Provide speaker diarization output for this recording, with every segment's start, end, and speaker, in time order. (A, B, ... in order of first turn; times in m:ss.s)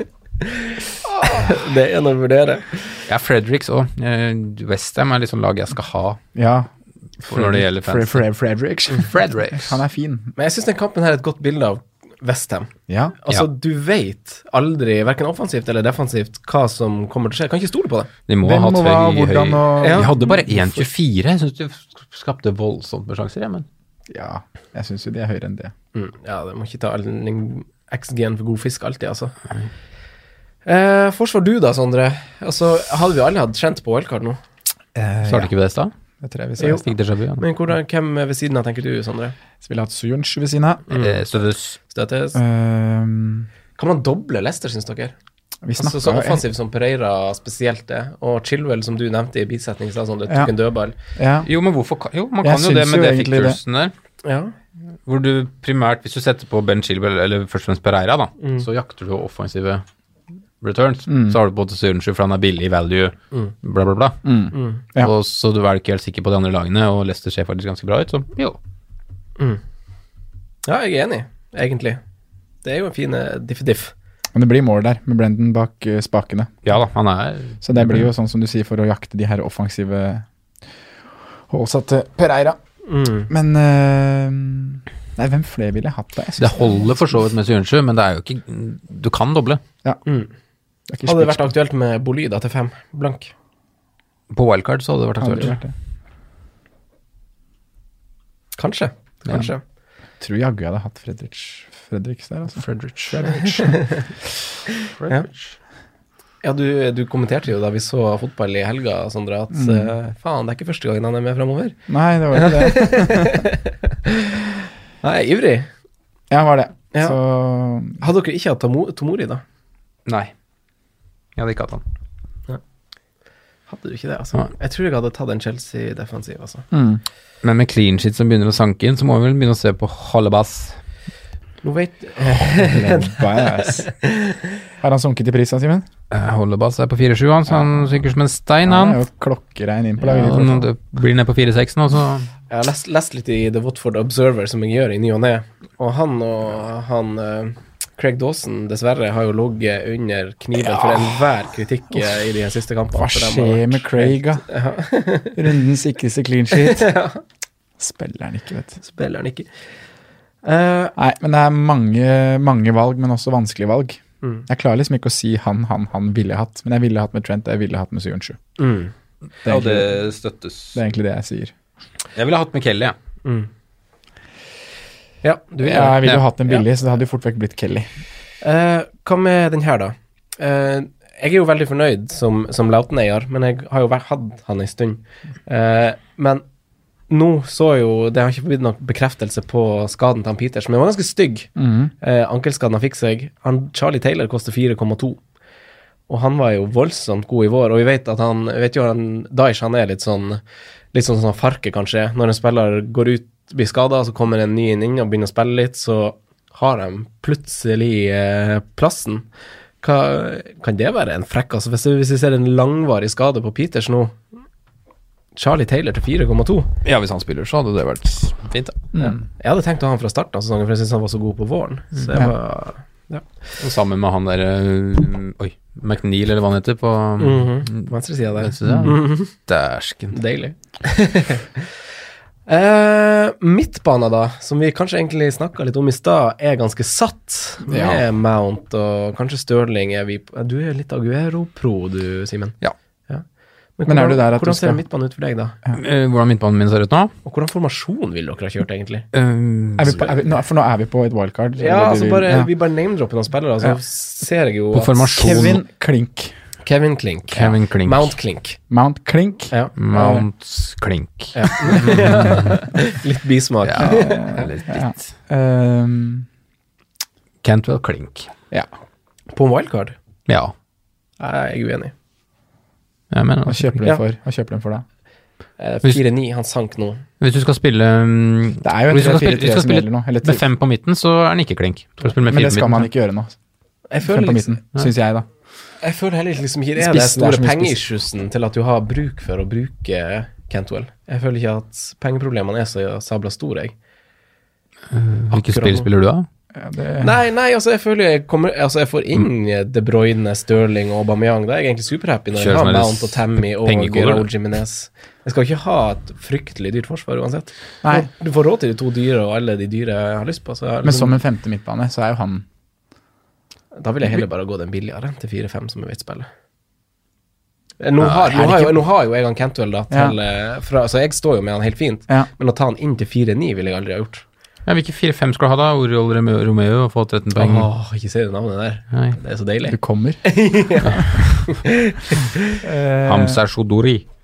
0:00.4-0:03.0 A
0:03.1-0:06.2 B
0:06.3-0:06.7 C
0:07.2-0:10.3 C
0:07.3-0:08.2 B
0:08.9-0:09.8 B
0:10.4-0:18.1 A
0:12.9-0:13.2 C
0:18.3-0:23.6 B
0:18.4-0:20.8 C
0:19.8-0:20.1 A
0:24.1-0:25.7 C
0:25.9-0:29.3 A
0:30.6-0:34.4 A
0:34.9-0:35.5 C
0:35.2-0:35.9 B
0:36.2-0:36.8 C
0:36.6-0:37.4 B
0:37.4-0:39.3 A
0:39.6-0:40.9 C
0:40.9-0:41.8 B
0:41.9-0:42.4 A
0:42.3-0:43.5 C
0:43.8-0:45.1 A
0:45.6-0:46.4 C
0:45.8-0:50.9 A
0:50.3-0:50.5 C
0:51.2-0:51.5 C
0:51.4-0:53.9 B
0:52.4-0:53.6 C
0:54.2-0:54.5 A
0:55.0-0:59.8 B
0:58.4-0:58.6 A
1:00.6-1:04.3 B
1:01.1-1:01.4 C
1:04.2-1:05.1 C
1:04.5-1:04.8 A
1:05.0-1:08.6 B
1:10.6-1:12.0 A
1:12.6-1:13.9 A
1:14.3-1:16.6 C
1:16.6-1:18.1 B
1:17.6-1:20.2 C
1:21.5-1:22.6 C
1:22.8-1:23.3 A
1:23.3-1:26.9 C
1:26.4-1:29.6 B
1:30.0-1:30.3 A
1:30.9-1:31.5 C
1:31.0-1:33.3 A
1:34.3-1:35.6 B
1:35.2-1:35.7 C
1:38.6-1:39.6 A
1:40.2-1:43.9 C
1:42.7-1:43.1 B
1:43.2-1:44.0 A
1:45.0-1:45.5 B
1:46.4-1:51.8 A
1:49.5-1:49.9 C
1:51.9-1:53.4 C
1:52.3-1:55.7 A
1:56.3-1:58.0 C
1:58.0-1:59.4 A
2:00.0-2:00.3 B
2:01.4-2:01.8 B
2:03.7-2:06.6 A
2:06.7-2:07.0 C
2:07.4-2:10.8 B
2:11.6-2:14.5 A
2:12.4-2:13.9 C
2:14.8-2:15.8 C
2:16.1-2:19.0 B
2:18.6-2:20.7 C
2:20.0-2:22.3 B
2:22.5-2:35.4 A
2:30.6-2:31.1 C
2:32.9-2:34.4 C
2:35.3-2:36.9 C
2:36.5-2:37.2 A
2:37.8-2:38.8 C
2:38.8-2:39.5 A
2:40.4-2:41.0 A
2:41.0-2:48.4 C
2:48.6-2:48.9 A
2:49.4-2:50.8 B
2:49.4-2:50.0 C
2:50.7-2:51.5 C
2:52.1-2:52.9 B
2:53.2-2:53.5 A
2:55.2-2:56.6 A
2:55.6-2:57.9 C
2:58.4-3:06.4 A
3:07.1-3:15.2 A
3:11.6-3:11.9 C
3:16.1-3:20.4 A
3:20.9-3:29.3 A
3:29.8-3:34.2 A
3:35.4-3:36.7 A
3:36.8-3:38.9 B
3:38.9-3:39.2 C
3:39.0-3:43.2 A
3:43.6-3:50.2 B
3:47.2-3:49.3 A
3:48.6-3:49.0 C
3:50.1-3:51.7 A
3:52.5-4:02.6 A
3:57.7-3:58.0 C
4:03.8-4:05.6 A
4:03.8-4:04.8 C
4:05.8-4:07.1 B
4:07.2-4:09.0 A
4:09.1-4:10.1 B
4:09.8-4:12.5 C
4:11.6-4:15.1 A
4:14.7-4:15.6 B
4:15.1-4:16.3 C
4:16.6-4:18.6 A
4:17.3-4:18.1 B
4:18.7-4:20.2 C
4:19.8-4:22.6 B
4:21.3-4:24.5 A
4:23.6-4:25.0 B
4:23.8-4:26.3 C
4:27.4-4:28.3 B
4:29.3-4:30.0 A
4:30.3-4:30.5 B
4:31.2-4:31.9 A
4:33.1-4:33.8 B
4:33.5-4:34.8 C
4:35.6-4:37.0 A
4:37.2-4:42.9 B
4:38.6-4:40.4 C
4:42.3-4:43.3 C
4:43.9-4:44.6 A
4:44.0-4:45.2 C
4:45.8-4:53.7 A
4:46.8-4:47.8 C
4:54.9-4:56.2 B
4:55.3-4:55.9 A
4:56.5-4:57.1 C
4:57.0-5:11.2 A
5:02.3-5:04.3 B
5:07.8-5:08.1 C
5:10.8-5:12.4 C
5:13.7-5:16.3 A
5:17.8-5:24.2 A
5:18.0-5:18.8 B
5:19.9-5:20.2 C
5:24.6-5:27.7 B
5:27.4-5:32.6 A
5:29.7-5:30.4 C
5:31.0-5:31.4 B
5:32.6-5:33.4 C
5:33.0-5:34.0 B